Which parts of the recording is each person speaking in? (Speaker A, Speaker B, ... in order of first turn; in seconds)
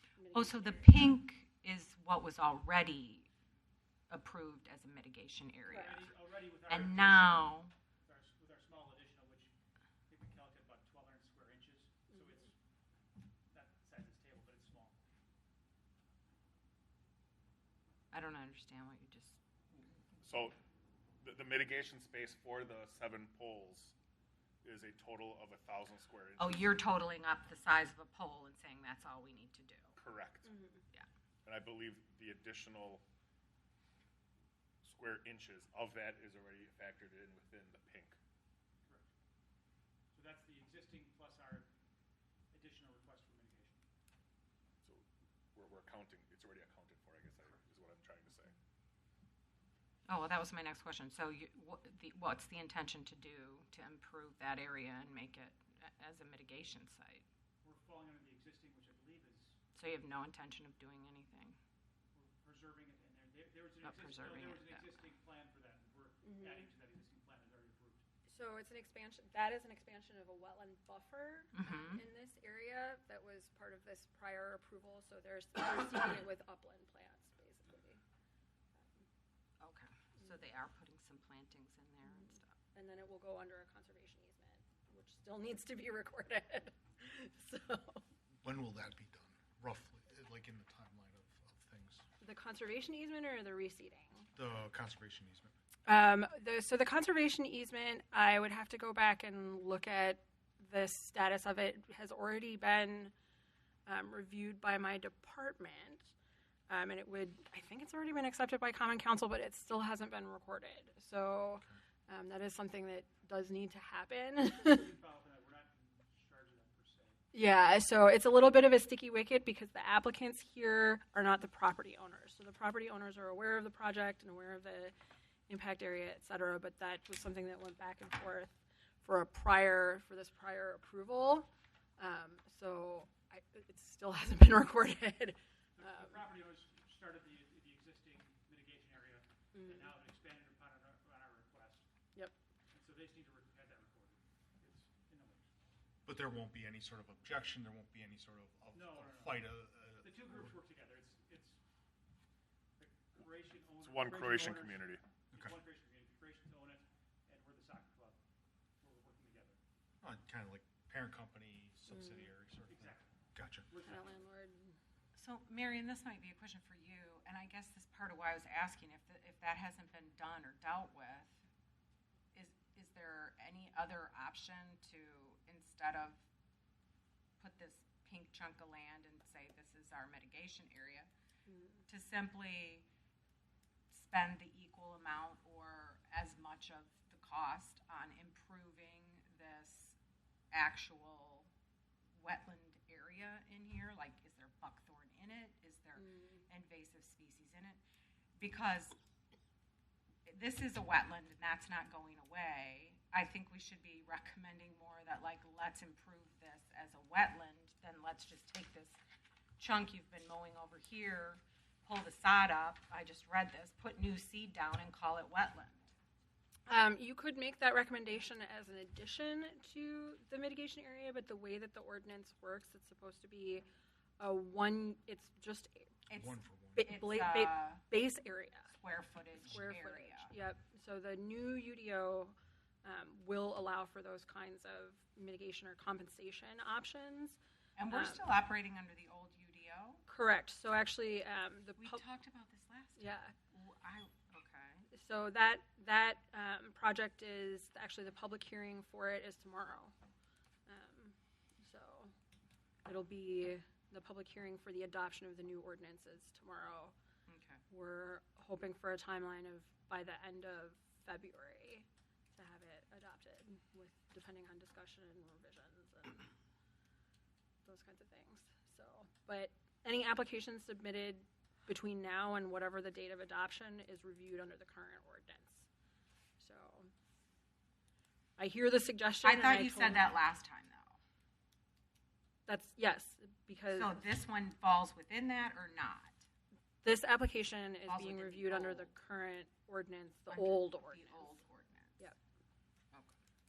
Speaker A: 0.2-1.1, 5.7-6.0, 30.4-30.8, 66.2-66.7, 68.3-78.0, 78.8-79.0, 82.1-88.0, 92.2-94.3, 95.8-103.1, 103.9-106.1, 106.7-114.9, 117.3-124.9, 125.5-136.2, 139.5-139.9, 161.9-162.3, 163.8-164.8, 181.5-181.8, 196.0-196.4, 216.7-223.6, 224.2-225.9, 226.8-228.7, 229.4-237.4, 237.9-238.3, 240.1-242.0, 243.0-243.3, 244.9-249.9, 250.7-252.1, 252.8-256.9, 257.7-266.3, 267.6-275.7, 276.4-276.9, 278.4-280.1, 282.4-284.0, 286.8-291.4
Speaker B: 0.3-3.3, 4.1-6.1, 6.7-7.7, 18.1-19.9, 26.4-29.9, 50.1-57.2, 59.7-61.6, 63.8-64.9, 71.5-72.0, 79.6-82.5, 165.2-171.3, 172.3-176.2, 177.4-181.1, 181.9-182.8, 183.9-189.9, 190.5-191.5, 192.2-197.8, 198.4-198.9, 200.2-209.0, 209.6-215.9, 226.1-227.8, 228.7-230.3, 237.8-240.0, 241.8-244.8, 257.3-257.6, 279.2-281.0, 283.7-286.2, 287.9-288.9, 290.3-292.1
Speaker C: 5.7-9.5, 10.1-12.6, 13.5-15.0, 38.8-39.1, 40.1-41.7, 42.5-43.8, 57.6-59.6, 62.1-68.0, 114.5-117.2, 135.8-141.8, 142.7-145.4, 148.7-151.6, 152.8-158.2, 158.8-159.6, 162.7-163.1, 163.7-164.2
Speaker D: 20.2-20.6, 21.2-23.9, 24.6-26.7, 30.0-30.5, 31.4-33.0, 34.8-38.2, 44.8-48.5, 153.8-155.0
Speaker E: 88.4-92.0, 94.3-95.5, 146.1-150.5, 160.0-163.7, 226.1-226.9